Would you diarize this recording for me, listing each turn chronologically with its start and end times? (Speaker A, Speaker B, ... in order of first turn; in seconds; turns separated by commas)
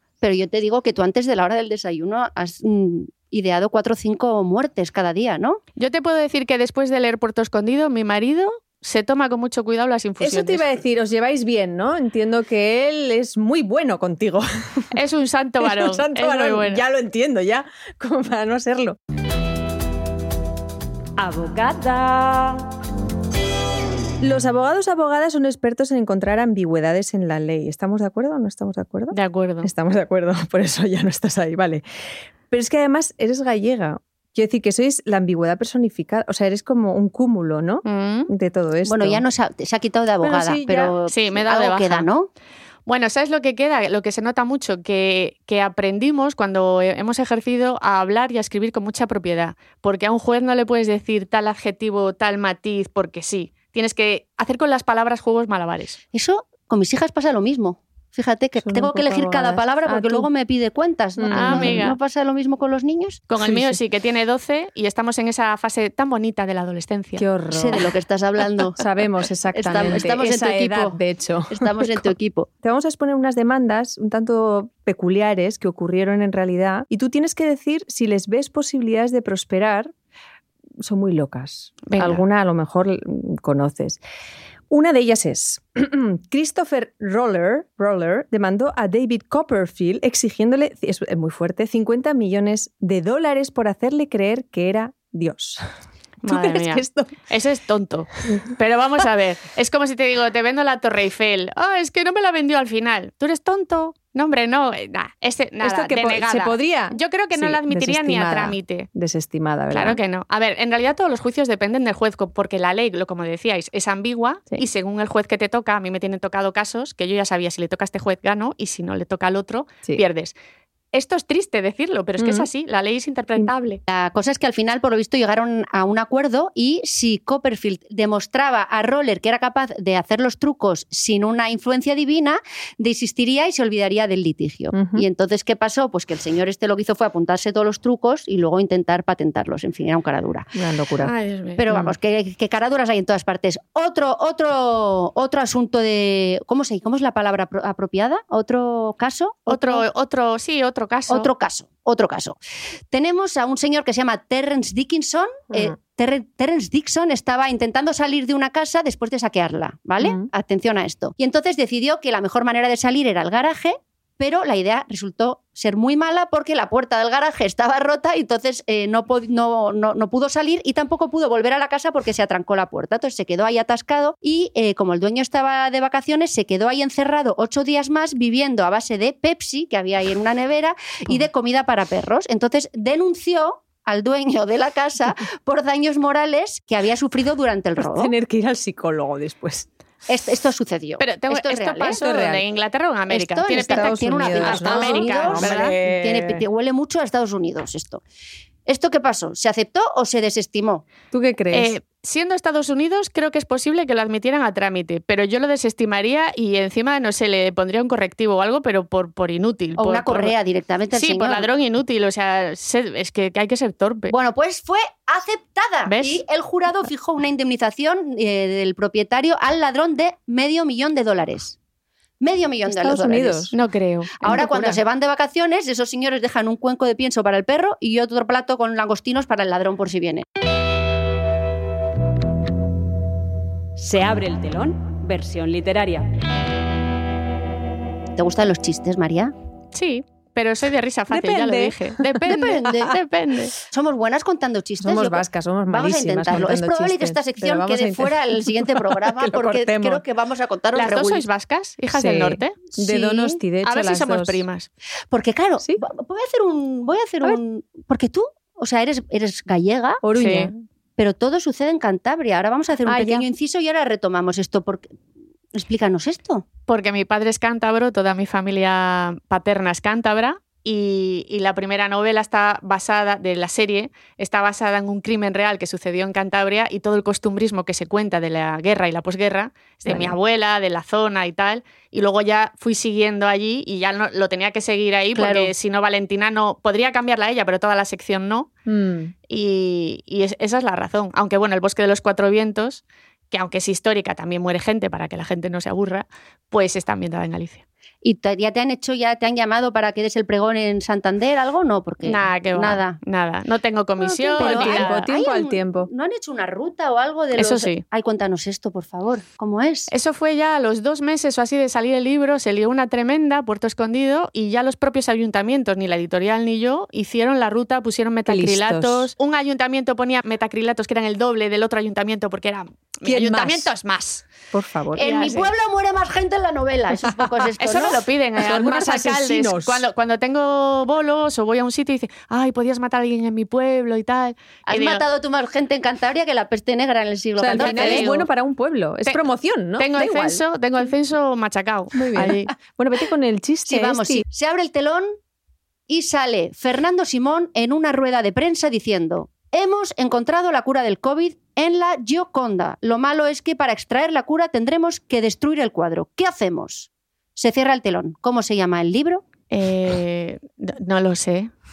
Speaker A: 0.2-5.6, Speaker B: 5.8-10.6, Speaker C: 10.2-14.9, Speaker B: 14.9-16.8, Speaker C: 15.6-19.0, Speaker D: 21.2-22.7, Speaker C: 24.2-31.8, Speaker B: 29.1-29.7, Speaker C: 32.5-39.2, Speaker B: 37.9-38.3, Speaker A: 38.9-42.3, Speaker C: 40.2-40.9, Speaker B: 41.1-42.1, Speaker B: 42.9-56.0, Speaker A: 56.1-63.2, Speaker C: 58.6-60.3, Speaker C: 61.2-61.9, Speaker B: 61.3-62.0, Speaker B: 63.3-67.2, Speaker C: 63.4-63.8, Speaker C: 67.2-67.9, Speaker A: 67.5-68.8, Speaker C: 68.8-72.1, Speaker A: 69.5-71.0, Speaker A: 71.5-72.5, Speaker C: 72.6-79.9, Speaker C: 80.8-84.0, Speaker B: 81.9-82.2, Speaker C: 84.7-95.6, Speaker B: 96.2-108.9, Speaker C: 96.2-97.2, Speaker C: 105.6-110.0, Speaker B: 109.7-120.3, Speaker B: 120.9-123.8, Speaker C: 122.2-122.5, Speaker A: 123.9-140.5, Speaker C: 134.7-135.1, Speaker C: 140.6-141.1, Speaker B: 141.0-141.6, Speaker A: 141.6-149.8, Speaker B: 149.5-151.3, Speaker A: 151.1-152.4, Speaker A: 152.9-188.1, Speaker C: 160.0-160.3, Speaker C: 187.8-189.7, Speaker A: 190.1-192.0, Speaker B: 191.0-195.7, Speaker C: 192.0-192.4, Speaker A: 193.1-198.0, Speaker C: 193.5-196.4, Speaker A: 198.7-200.8, Speaker C: 201.1-201.7, Speaker B: 201.5-210.3, Speaker A: 209.8-211.5, Speaker B: 210.9-214.1, Speaker A: 214.1-221.6, Speaker B: 215.9-216.2, Speaker A: 222.2-223.5, Speaker C: 222.7-223.5, Speaker B: 223.5-224.8, Speaker A: 224.2-230.2, Speaker D: 233.8-236.1, Speaker A: 238.2-239.3, Speaker B: 239.7-243.6, Speaker C: 241.1-242.9, Speaker A: 242.3-242.9, Speaker A: 243.7-251.2, Speaker C: 244.8-250.0, Speaker B: 250.7-252.6, Speaker C: 251.9-254.4, Speaker A: 252.7-253.4, Speaker B: 253.6-254.7, Speaker A: 255.1-260.0, Speaker C: 260.0-260.5, Speaker B: 260.1-260.6, Speaker A: 261.0-264.9, Speaker C: 262.9-263.3, Speaker A: 265.5-266.4, Speaker B: 266.7-288.5, Speaker C: 279.9-280.1, Speaker A: 285.1-285.5, Speaker C: 288.7-289.1, Speaker B: 289.3-297.6, Speaker A: 298.0-303.0, Speaker B: 302.0-305.0, Speaker A: 304.0-309.9, Speaker C: 304.4-305.9, Speaker B: 307.4-307.8, Speaker B: 309.9-324.3, Speaker C: 318.3-319.1, Speaker C: 323.0-323.7, Speaker C: 324.5-325.1, Speaker B: 324.9-325.5, Speaker A: 324.9-328.0, Speaker B: 327.6-335.0, Speaker C: 328.4-329.9, Speaker A: 334.7-338.1, Speaker C: 337.4-340.4, Speaker B: 337.6-338.2, Speaker B: 339.8-342.5, Speaker C: 342.0-344.2, Speaker A: 343.7-345.1, Speaker A: 345.9-359.2, Speaker B: 359.5-361.5